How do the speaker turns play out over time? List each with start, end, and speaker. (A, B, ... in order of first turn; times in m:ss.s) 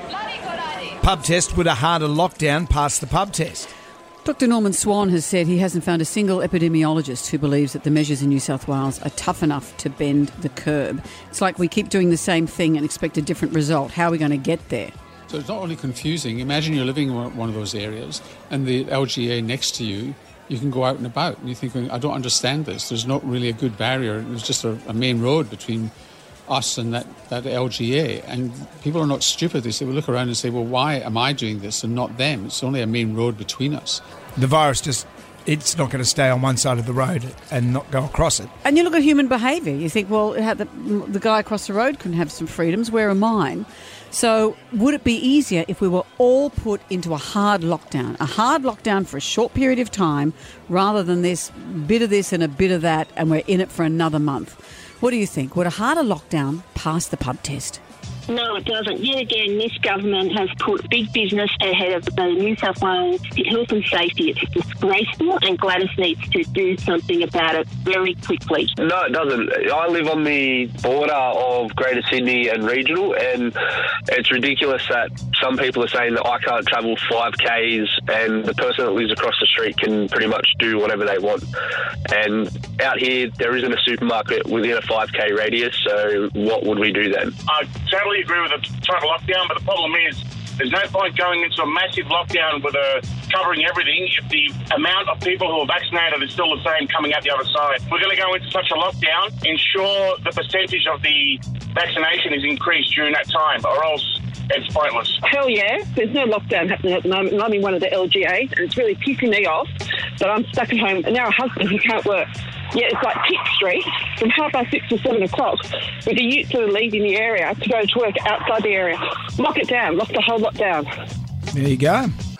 0:01.0-0:03.7 A
0:04.2-0:14.9 B
0:15.3-0:25.9 C
0:26.5-0:34.0 C
0:34.4-0:38.5 A
0:38.6-0:57.8 B
0:58.3-1:08.7 D
1:08.8-1:13.6 E
1:14.1-1:21.5 E
1:22.1-1:27.4 E
1:27.5-1:45.2 F
1:45.3-2:00.9 G
2:01.5-2:02.1 A